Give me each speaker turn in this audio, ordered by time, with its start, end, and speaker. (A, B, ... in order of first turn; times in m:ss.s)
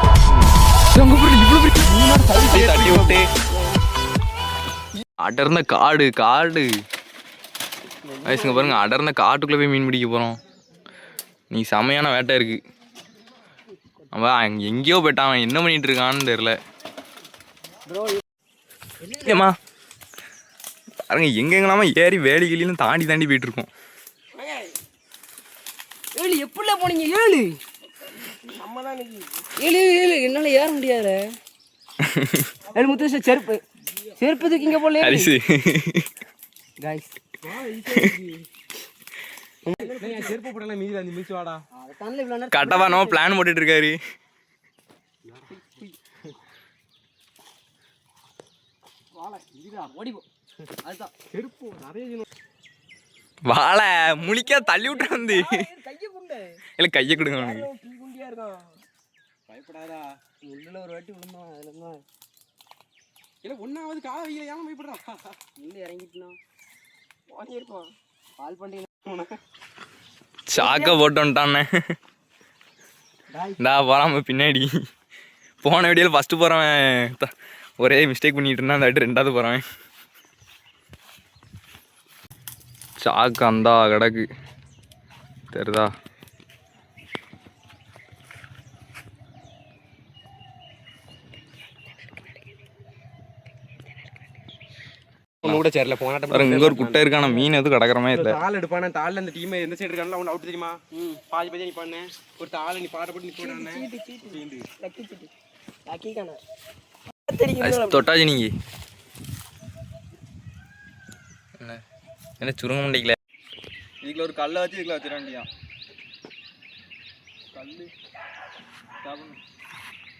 0:00.4-0:01.9 A
0:01.8-0:03.2 B
0:02.5-0:03.2 A
0:05.2-0:06.7 A
0:08.2-0:10.4 A
0:08.3-0:08.8 C
0:11.5-0:12.6 A
0:14.1-0:16.6 A
0:17.9-0:18.2 C
0:19.0-0:19.5 C
0:19.2-0:19.6 A
0:21.1-0:23.7 A
0:24.4-0:24.7 C
0:26.1-0:27.6 C
0:29.5-0:31.2 C
0:32.0-0:32.5 A
0:32.7-0:33.6 C
0:34.1-0:35.3 C
0:35.0-0:36.1 A
0:36.8-0:37.1 C
0:37.4-0:38.4 B
0:37.9-0:38.2 A
0:39.6-0:40.4 C
0:39.8-0:41.6 B
0:41.7-0:43.2 C
0:42.5-0:44.0 A
0:45.2-0:45.6 B
0:45.6-0:45.9 C
0:49.2-0:49.9 B
0:49.9-0:50.2 C
0:50.8-0:51.1 C
0:51.2-0:52.2 B
0:53.4-0:55.6 A
0:54.6-0:56.4 C
0:56.8-0:57.7 A
0:57.2-0:58.6 C
0:59.5-1:00.2 B
1:00.4-1:02.0 C
1:03.4-1:05.4 B
1:05.6-1:06.4 C
1:07.3-1:08.9 C
1:09.0-1:09.4 B
1:10.5-1:11.7 A
1:10.6-1:10.9 C
1:13.3-1:13.6 C
1:13.6-1:14.7 A
1:15.6-1:19.6 A
1:23.0-1:24.2 A
1:25.5-1:25.9 A
1:35.4-1:37.5 B
1:36.3-1:38.4 A
1:38.1-1:44.7 B
1:43.4-1:45.2 C
1:45.9-1:46.3 C
1:47.3-1:47.7 C
1:47.6-1:48.5 A
1:52.4-1:53.2 A
1:54.0-1:55.5 A